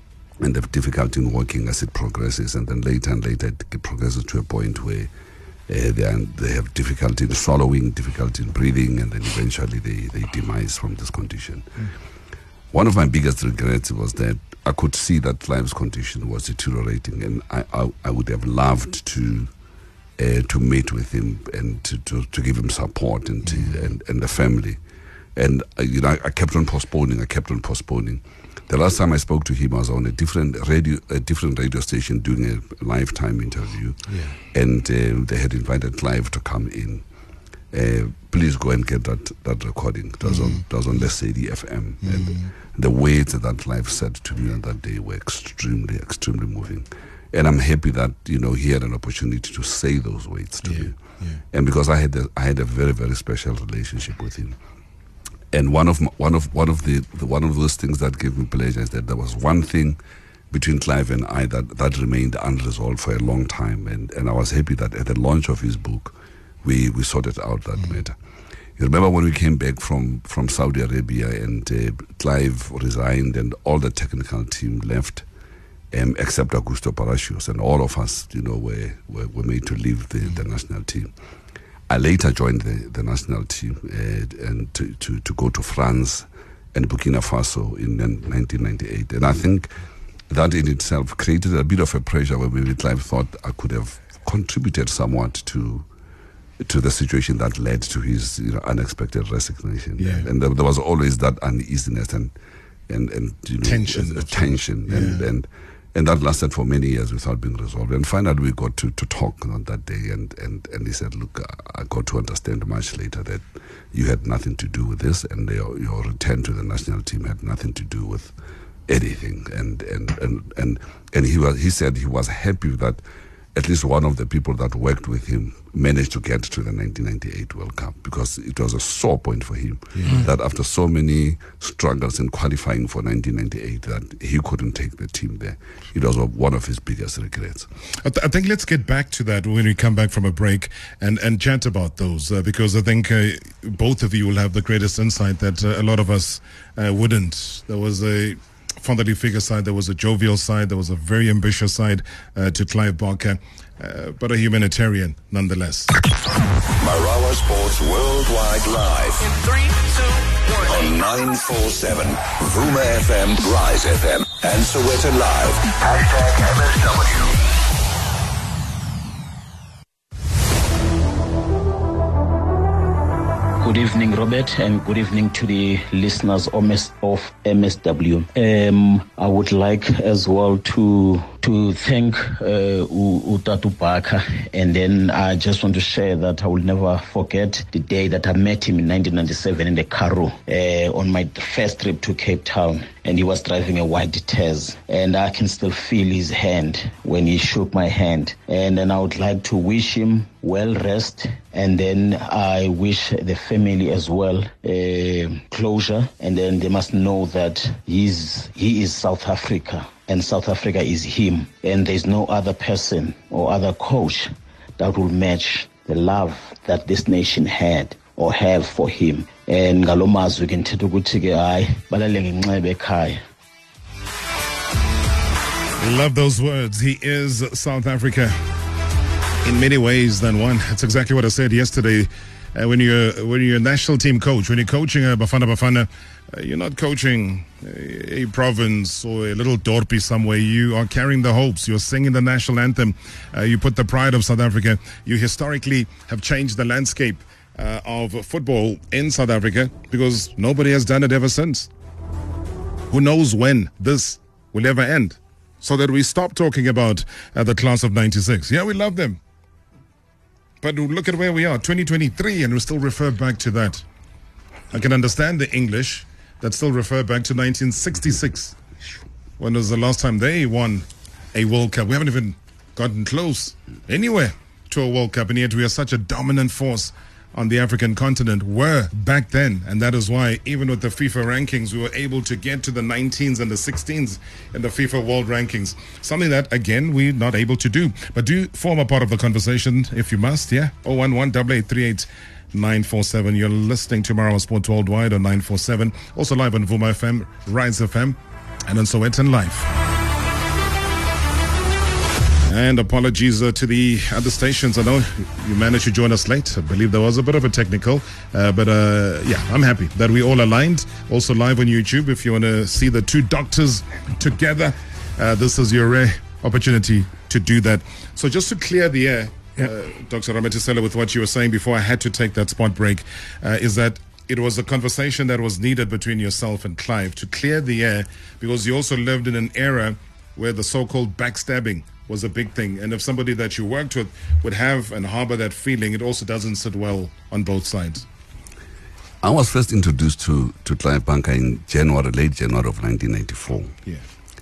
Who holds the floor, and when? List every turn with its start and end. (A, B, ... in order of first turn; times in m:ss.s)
0:00.4-0:05.1 A
0:05.7-0:11.9 A
0:12.7-0:19.5 A
0:20.2-0:24.8 A
0:23.4-0:23.7 B
0:25.4-0:37.0 A
0:34.1-0:34.4 B
0:37.7-0:51.0 A
0:40.2-0:40.6 B
0:42.0-0:42.5 B
0:50.6-0:51.4 B
0:51.5-0:54.6 A
0:55.5-1:00.0 A
1:00.5-1:08.2 A
1:08.8-1:15.2 A
1:15.9-1:21.1 A
1:21.9-1:29.7 A
1:30.3-1:35.8 A
1:36.6-1:42.3 A
1:40.0-1:40.3 B
1:42.9-1:58.3 A
1:43.6-1:45.2 B
1:58.9-2:03.0 A
2:03.5-2:17.7 A
2:09.9-2:10.3 B
2:18.0-2:35.9 B
2:36.8-2:39.5 C
2:40.4-2:47.4 C
2:53.6-3:43.2 D
3:45.8-3:48.4 B
3:49.4-4:11.7 B
4:12.9-4:19.2 B
4:20.6-4:23.8 B
4:24.7-4:28.6 B
4:29.4-4:59.7 B
5:02.4-5:38.0 B
5:39.2-5:43.8 A